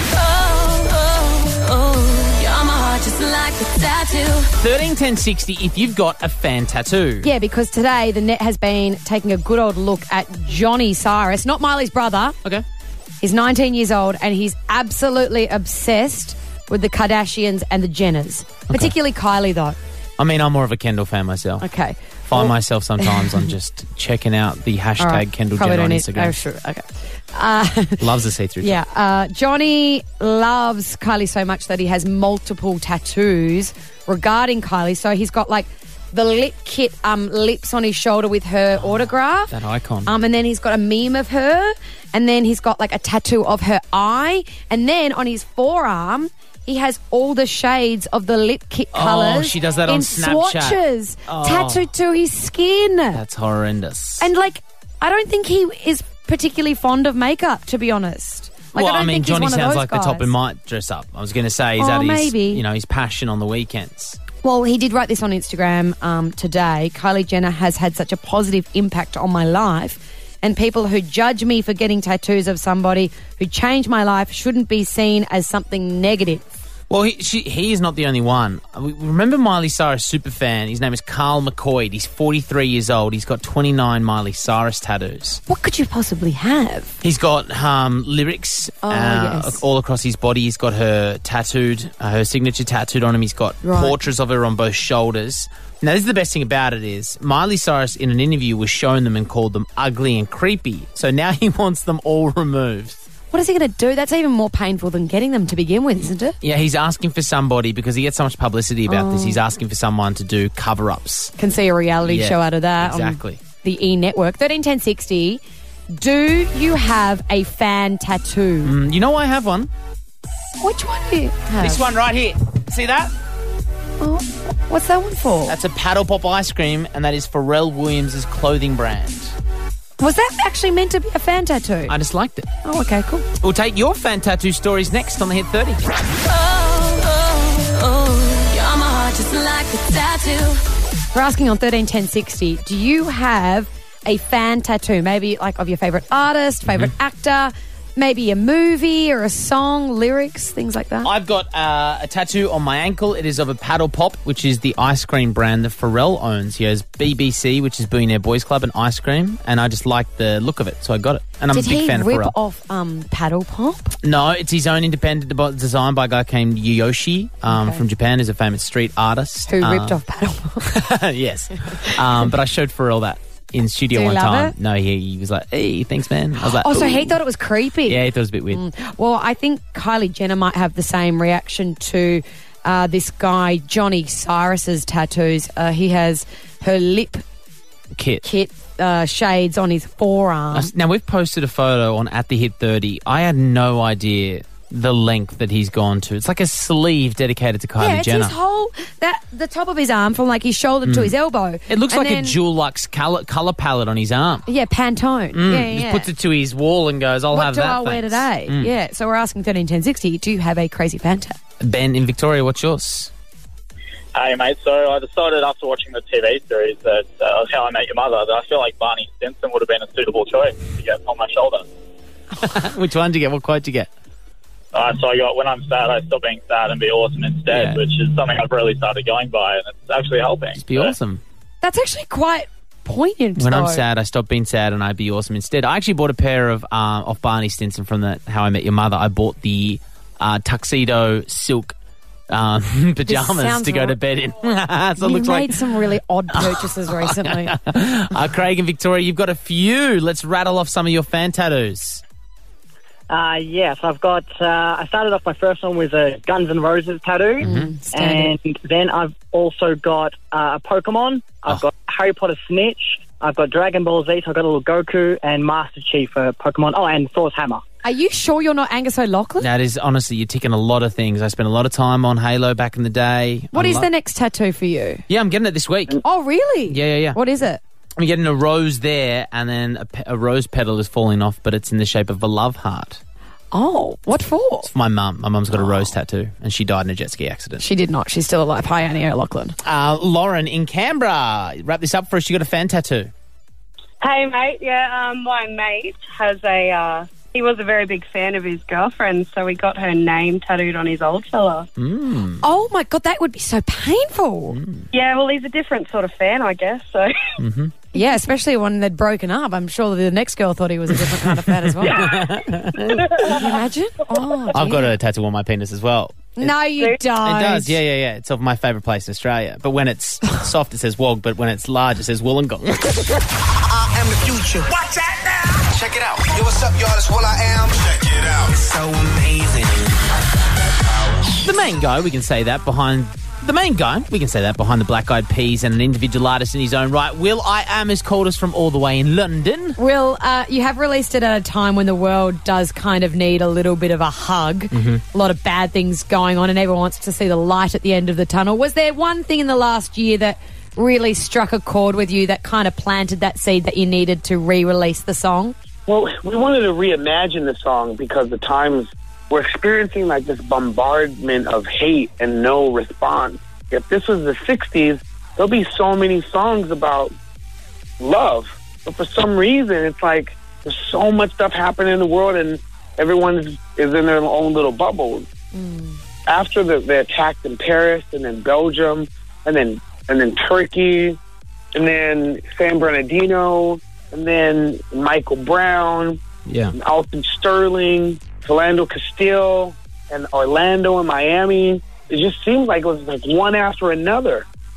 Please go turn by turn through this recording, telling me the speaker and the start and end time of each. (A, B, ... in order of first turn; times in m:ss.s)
0:00.4-0:04.5 A
0:04.6-0:07.3 B
0:07.2-0:12.4 C
0:13.2-0:19.8 C
0:20.2-0:21.7 B
0:21.6-0:23.5 C
0:22.3-0:26.3 B
0:25.0-0:28.0 C
0:28.0-0:28.8 B
0:28.6-0:39.5 C
0:39.5-0:40.1 B
0:40.1-0:53.2 C
0:48.9-0:51.9 B
0:53.1-0:54.3 B
0:54.2-1:00.3 C
0:58.7-1:04.2 B
1:01.8-1:02.6 C
1:04.4-1:16.4 C
1:16.9-1:25.4 B
1:25.5-1:27.0 C
1:27.0-1:43.0 B
1:28.8-1:29.6 C
1:33.6-1:34.0 C
1:43.3-1:46.4 C
1:46.4-1:51.3 B
1:48.9-1:49.4 C
1:51.4-1:55.4 C
1:52.1-1:53.4 B
1:55.9-1:58.7 C
1:58.6-1:59.7 B
2:00.6-2:01.8 C
2:01.6-2:03.1 B
2:04.0-2:05.6 C
2:05.5-2:09.4 B
2:10.0-2:11.9 C
2:11.9-2:12.5 B
2:12.6-2:13.3 C
2:13.4-2:15.8 B
2:16.4-2:20.6 A
2:21.1-2:31.1 C
2:26.7-2:26.9 B
2:31.0-2:42.3 B
2:41.5-2:44.0 C
2:44.0-2:50.0 B
2:47.5-2:47.8 C
2:49.5-2:50.7 C
2:50.6-2:57.2 B
2:51.7-2:52.0 C
2:54.0-2:54.5 C
2:56.4-3:07.2 C
2:57.9-2:58.6 B
3:07.9-3:08.2 B
3:08.2-3:10.7 C
3:10.5-3:18.3 B
3:17.8-3:22.4 C
3:20.9-3:21.1 B
3:21.7-3:24.4 B
3:24.5-3:26.1 C
3:25.3-3:28.7 B
3:27.3-3:31.4 C
3:31.6-3:33.1 B
3:34.2-3:41.7 D
3:42.4-3:43.9 B
3:44.7-3:50.9 D
3:47.5-3:47.8 B
3:50.6-3:51.2 B
3:51.6-3:53.8 C
3:53.4-4:01.8 B
4:02.3-4:05.7 B
4:03.1-4:04.0 C
4:05.0-4:07.6 C
4:06.3-4:12.0 B
4:13.1-4:27.6 E
4:17.4-4:17.7 B
4:17.4-4:18.3 C
4:27.8-4:29.5 C
4:29.4-4:33.9 B
4:33.5-4:35.0 C
4:35.1-4:36.0 B
4:36.0-4:37.6 C
4:36.7-4:37.2 B
4:38.0-4:43.0 B
4:43.5-4:44.7 C
4:44.6-4:47.6 B
4:47.6-4:49.6 C
4:49.6-4:53.1 B
4:54.0-5:01.7 F
5:01.8-5:02.4 B
5:02.4-5:04.6 C
5:04.5-5:04.8 B
5:04.9-5:07.3 F
5:07.4-5:07.7 B
5:07.9-5:12.1 C
5:11.3-5:13.4 B
5:13.3-5:14.9 C
5:14.5-5:16.5 B
5:16.4-5:17.8 C
5:17.2-5:23.2 B
5:23.7-5:30.0 G
5:30.8-5:31.4 G
5:31.4-5:39.8 B
5:39.8-5:55.6 C
5:44.7-5:45.0 B
5:55.9-6:07.1 H
6:08.0-6:15.3 H
6:15.6-6:16.0 C
6:16.3-6:21.2 H
6:21.7-6:26.2 H
6:26.5-6:26.7 B
6:26.7-6:34.4 H